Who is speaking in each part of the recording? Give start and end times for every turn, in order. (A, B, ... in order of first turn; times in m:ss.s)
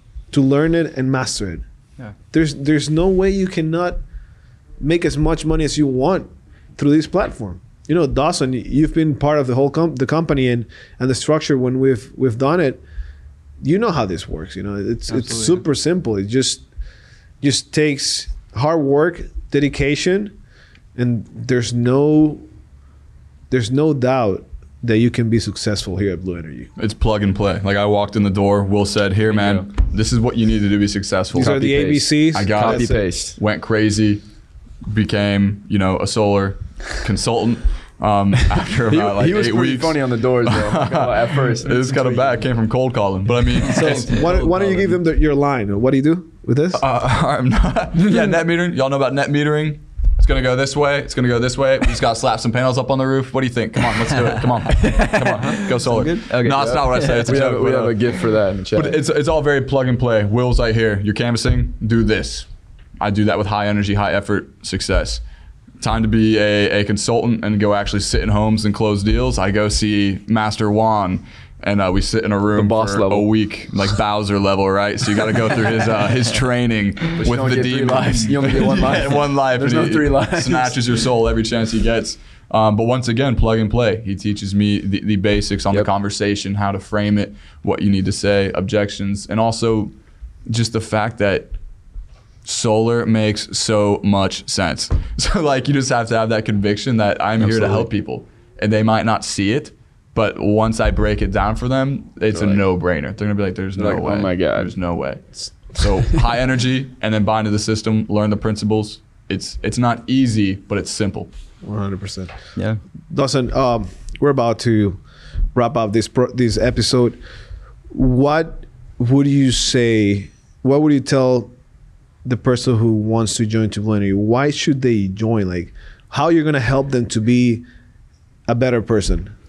0:00.3-0:01.6 A
0:02.3-0:04.0 A
0:04.8-0:12.8 A
0:13.6-0:16.6 A
0:15.1-0:15.6 B
0:17.4-0:20.4 A
0:21.0-0:22.5 A
0:23.5-0:26.7 A
0:26.8-0:31.7 C
0:29.3-0:29.7 D
0:31.3-0:33.0 A
0:31.3-0:33.4 D
0:32.3-0:34.2 C
0:34.9-0:45.0 C
0:38.9-0:42.5 D
0:43.7-0:46.8 A
0:46.7-0:58.2 C
0:54.2-0:57.4 B
0:56.5-0:59.0 D
0:58.7-1:02.5 C
1:03.0-1:05.2 C
1:05.8-1:29.9 C
1:12.5-1:13.3 D
1:17.2-1:20.8 D
1:30.5-1:31.6 C
1:32.4-1:51.3 C
1:37.4-1:37.9 D
1:42.3-1:42.6 D
1:43.8-1:44.7 D
1:51.6-1:52.3 A
1:52.6-1:52.8 B
1:53.1-1:55.0 A
1:55.5-1:57.2 A
1:57.9-2:01.5 A
2:02.2-2:07.6 A
2:08.5-2:09.3 A